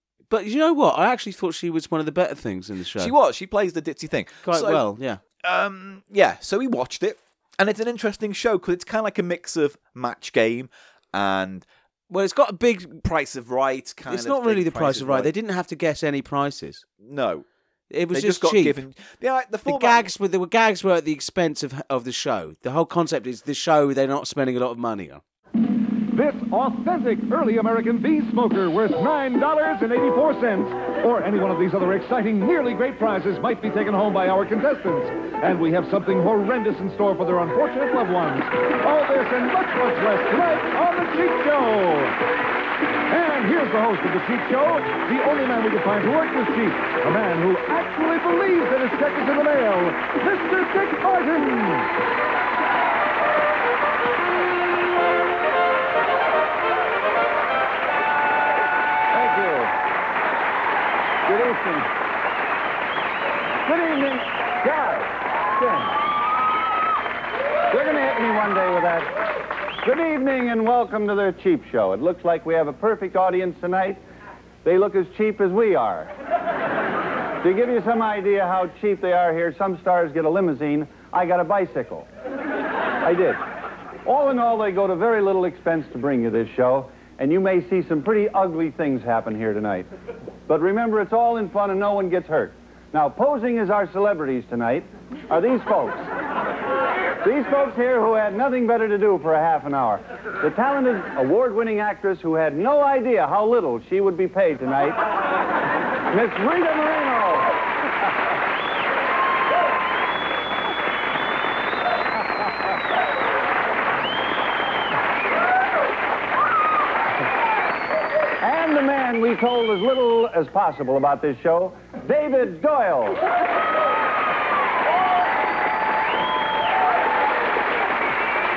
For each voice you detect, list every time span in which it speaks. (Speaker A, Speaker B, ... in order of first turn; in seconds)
Speaker A: 0.3-3.1, 4.4-5.2, 12.1-13.0, 14.1-16.8, 17.9-18.8, 19.6-25.2
Speaker B: 3.0-4.8, 5.4-11.7, 13.0-15.3, 17.0-17.4, 18.1-20.1
Speaker C: 26.1-42.1, 43.1-51.9
Speaker D: 59.1-59.7, 61.3-61.9, 63.6-66.0, 67.7-69.1, 69.8-74.0, 74.6-76.1, 77.4-82.1, 83.0-83.4, 84.0-89.9, 90.5-96.1, 97.2-105.0, 106.1-107.6, 118.4-123.2